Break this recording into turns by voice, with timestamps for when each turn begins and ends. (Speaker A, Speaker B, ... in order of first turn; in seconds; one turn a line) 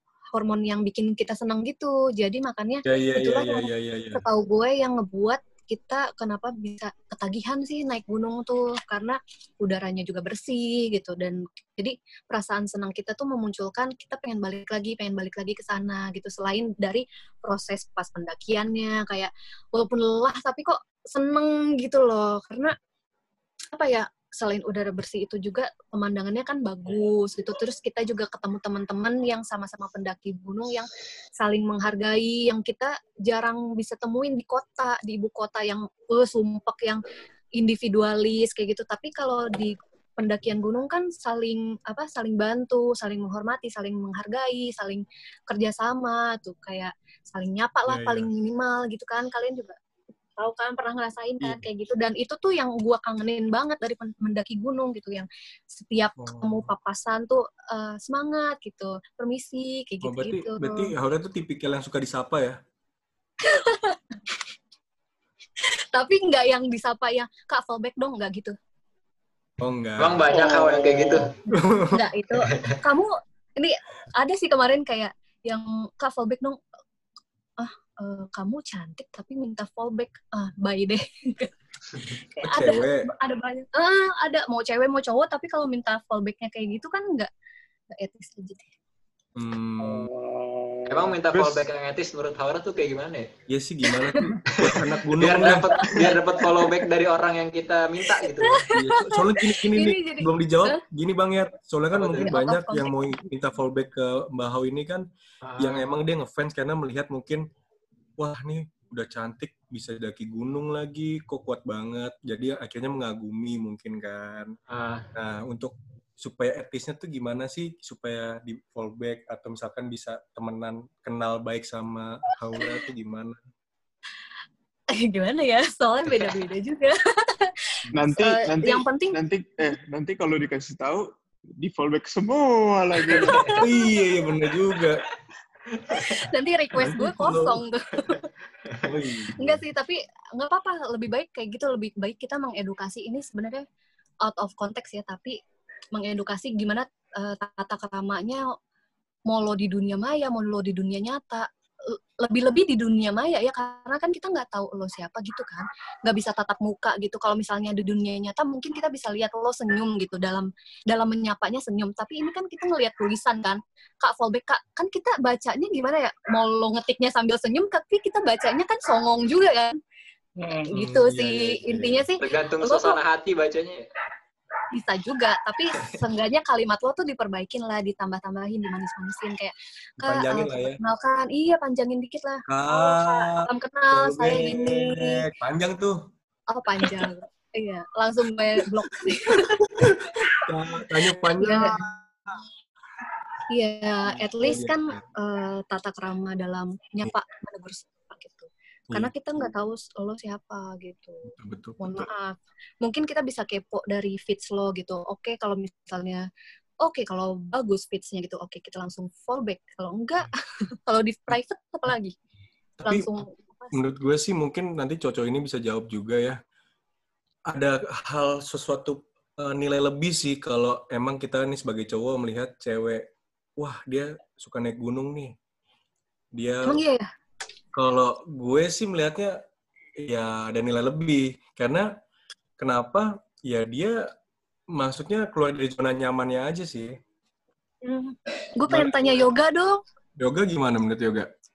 Speaker A: 0.3-22.7
Speaker B: 2.9-4.2
Speaker A: 23.7-37.0
Speaker A: 37.6-49.8
Speaker B: 47.9-48.3
Speaker A: 50.4-60.9
Speaker B: 56.2-56.7
Speaker B: 60.0-62.6
Speaker A: 63.4-64.0
Speaker A: 65.7-68.5
Speaker B: 69.6-70.2
Speaker C: 70.0-71.3
Speaker D: 70.3-71.3
Speaker A: 71.5-76.6
Speaker B: 71.5-72.0
Speaker C: 72.4-72.8
Speaker A: 77.6-81.5
Speaker A: 82.1-87.3
Speaker B: 82.4-83.1
Speaker A: 88.0-88.7
Speaker B: 89.4-90.1
Speaker D: 89.8-91.2
Speaker C: 90.9-93.3
Speaker E: 91.3-91.7
Speaker B: 93.5-95.7
Speaker A: 94.0-94.3
Speaker C: 94.6-98.7
Speaker A: 95.5-96.6
Speaker A: 98.1-100.8
Speaker B: 98.7-105.0
Speaker C: 101.9-102.3
Speaker A: 102.2-103.1
Speaker C: 105.4-106.0
Speaker B: 105.6-107.4
Speaker B: 108.2-114.6
Speaker C: 114.7-115.1
Speaker B: 115.1-123.4
Speaker A: 124.9-129.2
Speaker E: 127.9-133.6
Speaker C: 133.1-133.7
Speaker A: 133.2-133.6
Speaker B: 133.6-135.0
Speaker C: 134.6-135.0
Speaker C: 135.7-136.2
Speaker A: 136.1-138.3
Speaker B: 136.8-137.6
Speaker B: 138.8-139.6
Speaker A: 139.4-143.6
Speaker A: 144.2-145.4
Speaker A: 145.9-148.5
Speaker A: 149.3-169.8
Speaker D: 170.4-170.8
Speaker A: 170.7-173.0
Speaker B: 170.7-172.1
Speaker C: 172.2-173.9
Speaker A: 174.7-185.3
Speaker B: 180.0-180.8
Speaker B: 182.5-186.0
Speaker A: 186.5-190.4
Speaker B: 189.3-192.1
Speaker A: 191.3-191.7
Speaker A: 193.5-206.2
Speaker B: 194.4-195.0
Speaker B: 201.3-202.1
Speaker A: 206.8-210.3
Speaker A: 210.9-212.1
Speaker B: 212.8-213.1
Speaker A: 212.8-213.8
Speaker B: 213.7-216.4
Speaker B: 217.5-223.1
Speaker B: 223.6-225.3
Speaker B: 226.3-226.8
Speaker A: 226.7-227.1
Speaker B: 227.8-229.4
Speaker B: 230.0-231.9
Speaker B: 232.6-234.0
Speaker B: 234.7-236.9
Speaker A: 237.8-239.8
Speaker B: 238.7-239.1
Speaker B: 240.2-241.3